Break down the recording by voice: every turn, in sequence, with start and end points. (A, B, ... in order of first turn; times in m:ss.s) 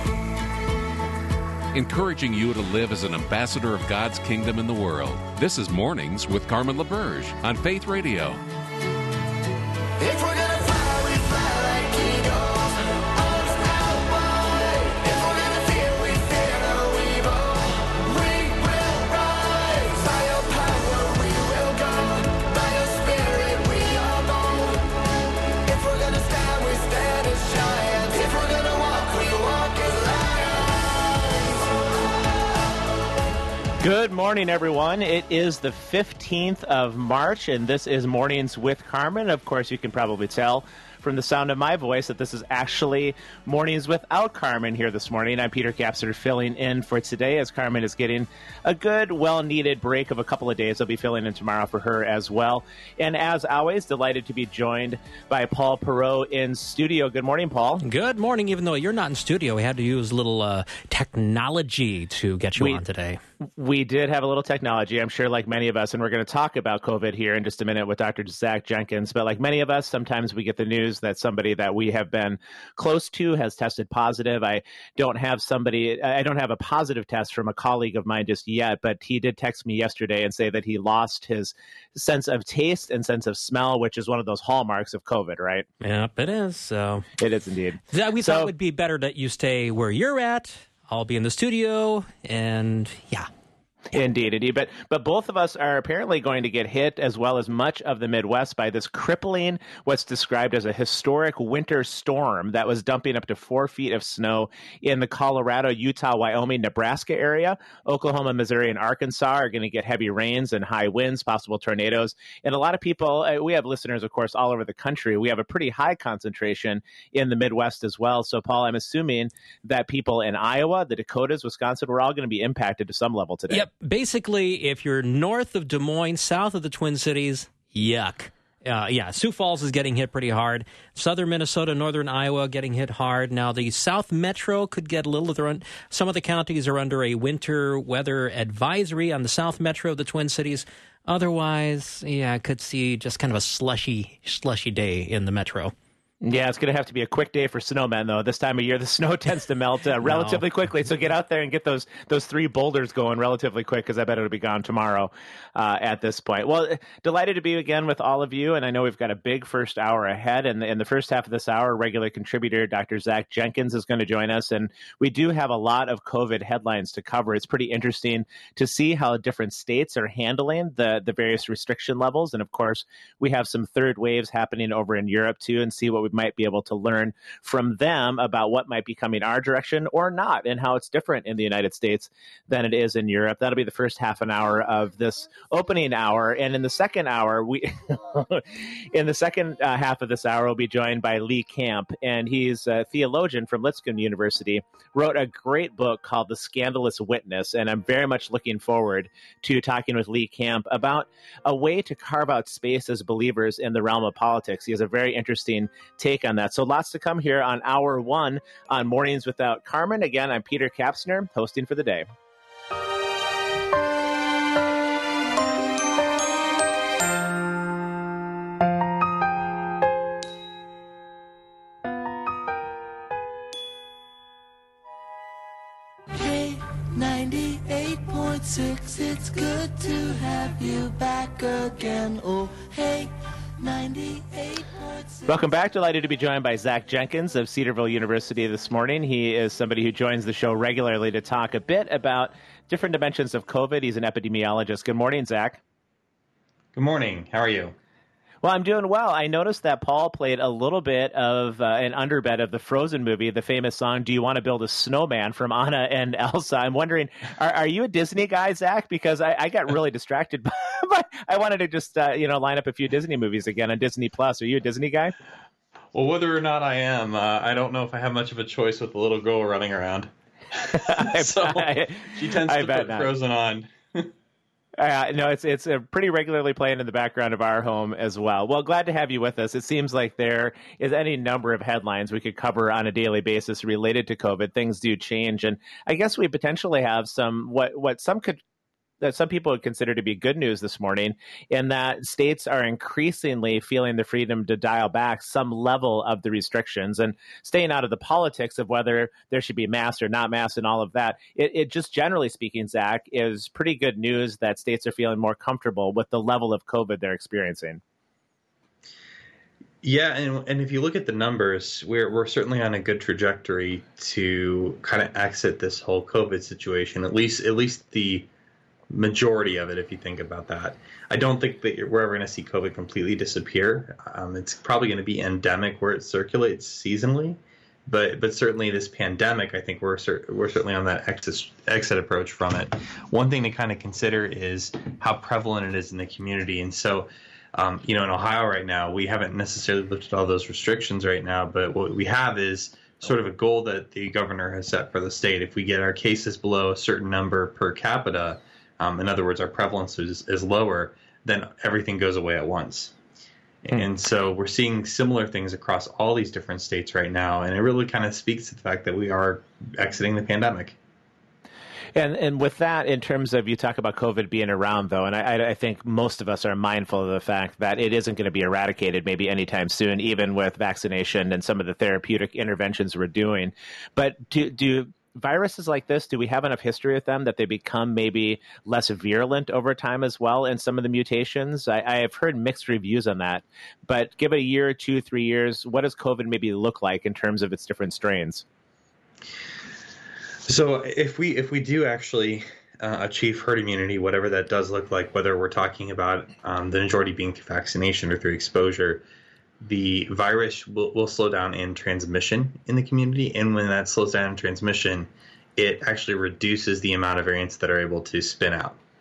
0:01.7-0:08.4 A
0:10.0-0:24.9 B
0:25.6-0:31.7 B
0:33.8-0:57.8 C
0:57.8-1:03.2 D
1:02.6-1:02.8 C
1:03.6-1:25.7 C
1:25.8-1:27.1 D
1:27.2-1:28.5 C
1:27.9-1:33.3 D
1:33.9-2:03.7 C
2:03.5-2:25.7 D
2:26.2-3:32.1 C
2:30.0-2:30.4 D
3:46.1-3:55.3 B
3:55.3-4:05.6 C
4:06.8-4:07.8 E
4:08.4-4:25.2 C
4:25.9-4:34.1 E
4:30.7-4:33.1 C
4:34.8-4:48.4 C
4:49.0-5:07.8 C
5:09.8-5:18.3 E
5:18.9-5:52.9 E
5:53.6-6:00.8 E
6:02.0-6:28.4 C
6:30.5-6:39.0 E
6:39.6-6:48.8 E